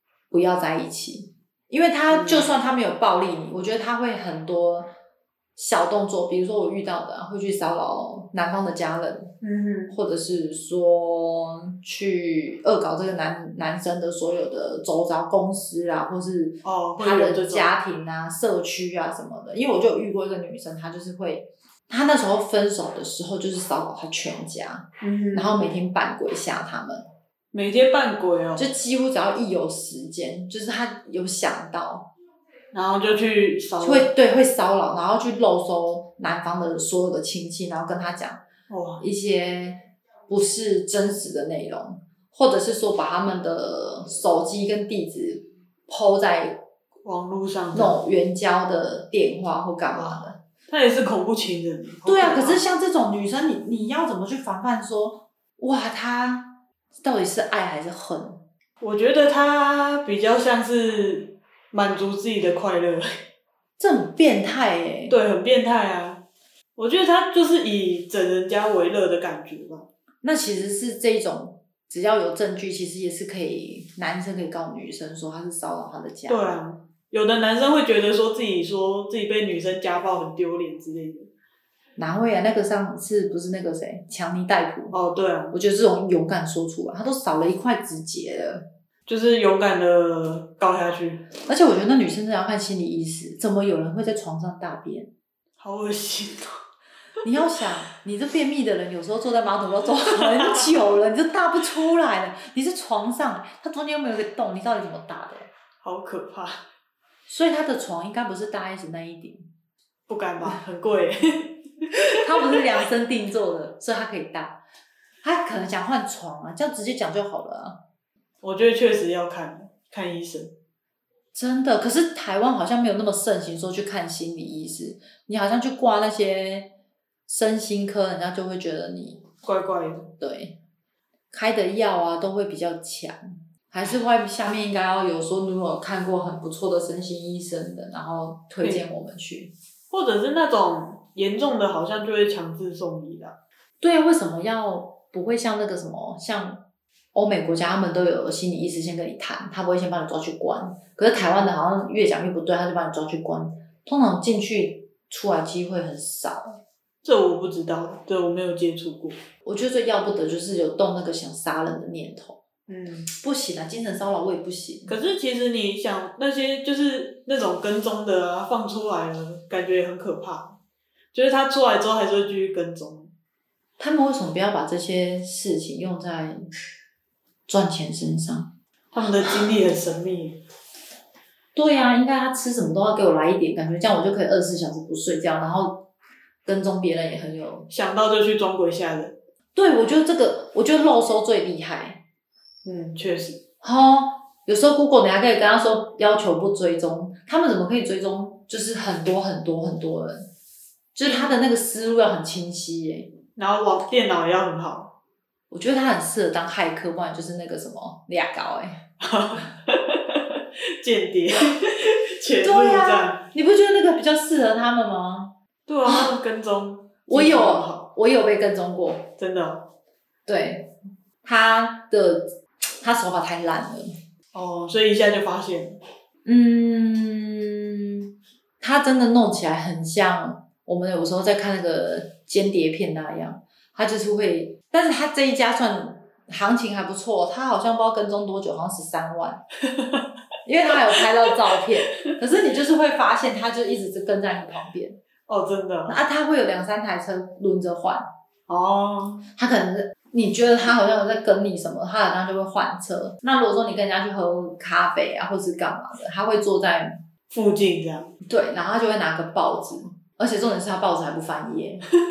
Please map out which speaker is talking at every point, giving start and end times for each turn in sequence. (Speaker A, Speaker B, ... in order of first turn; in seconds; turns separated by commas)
Speaker A: 0.3-4.9, Speaker B: 2.1-2.5, Speaker A: 5.6-9.3, Speaker B: 9.4-10.0, Speaker A: 9.9-27.1, Speaker B: 16.6-17.7, Speaker B: 25.0-25.7, Speaker B: 27.5-28.7, Speaker A: 28.6-32.1, Speaker B: 32.7-34.1, Speaker A: 33.8-38.4, Speaker B: 38.7-39.0, Speaker A: 39.0-46.6, Speaker B: 47.0-48.0, Speaker A: 47.7-50.4, Speaker B: 49.9-52.6, Speaker A: 52.1-58.4, Speaker B: 58.8-63.1, Speaker A: 63.8-65.2, Speaker B: 65.1-66.2, Speaker B: 66.8-69.9, Speaker A: 70.2-76.5, Speaker B: 76.3-81.3, Speaker A: 82.0-85.0, Speaker B: 84.9-85.6, Speaker A: 85.5-88.7, Speaker B: 89.1-91.3, Speaker A: 91.5-95.1, Speaker B: 95.6-96.6, Speaker A: 97.2-105.5, Speaker B: 100.2-100.7, Speaker B: 105.8-106.6, Speaker A: 107.3-109.5, Speaker B: 110.1-112.6, Speaker A: 112.1-114.6, Speaker A: 115.2-117.8, Speaker B: 118.4-120.5, Speaker A: 121.3-126.7, Speaker A: 127.3-129.3, Speaker B: 129.4-130.1, Speaker A: 130.2-130.6, Speaker A: 131.3-139.5, Speaker B: 139.9-143.4, Speaker A: 143.8-156.6, Speaker B: 157.0-159.2, Speaker A: 159.4-162.4, Speaker B: 162.7-163.1, Speaker A: 163.2-165.0, Speaker B: 164.9-170.6, Speaker B: 171.1-173.1, Speaker A: 173.8-176.4, Speaker A: 177.5-178.5, Speaker B: 178.9-180.4, Speaker A: 181.6-185.9, Speaker A: 186.4-187.7, Speaker B: 187.7-189.2, Speaker A: 189.6-192.0, Speaker B: 192.7-193.4, Speaker A: 193.6-200.3, Speaker A: 200.9-203.1, Speaker B: 201.0-201.4, Speaker B: 203.4-204.9, Speaker A: 205.5-208.9, Speaker B: 209.0-213.3, Speaker A: 212.4-216.2, Speaker B: 215.7-217.9, Speaker A: 217.1-219.1, Speaker B: 219.2-219.7, Speaker A: 220.3-220.7, Speaker A: 221.2-223.9, Speaker B: 224.3-225.8, Speaker A: 226.2-227.8, Speaker A: 228.6-239.4, Speaker B: 239.7-240.1, Speaker A: 240.4-245.0, Speaker B: 245.3-246.0, Speaker A: 245.9-248.1, Speaker B: 248.5-249.2, Speaker A: 249.4-257.0, Speaker B: 257.3-258.1, Speaker A: 258.2-261.9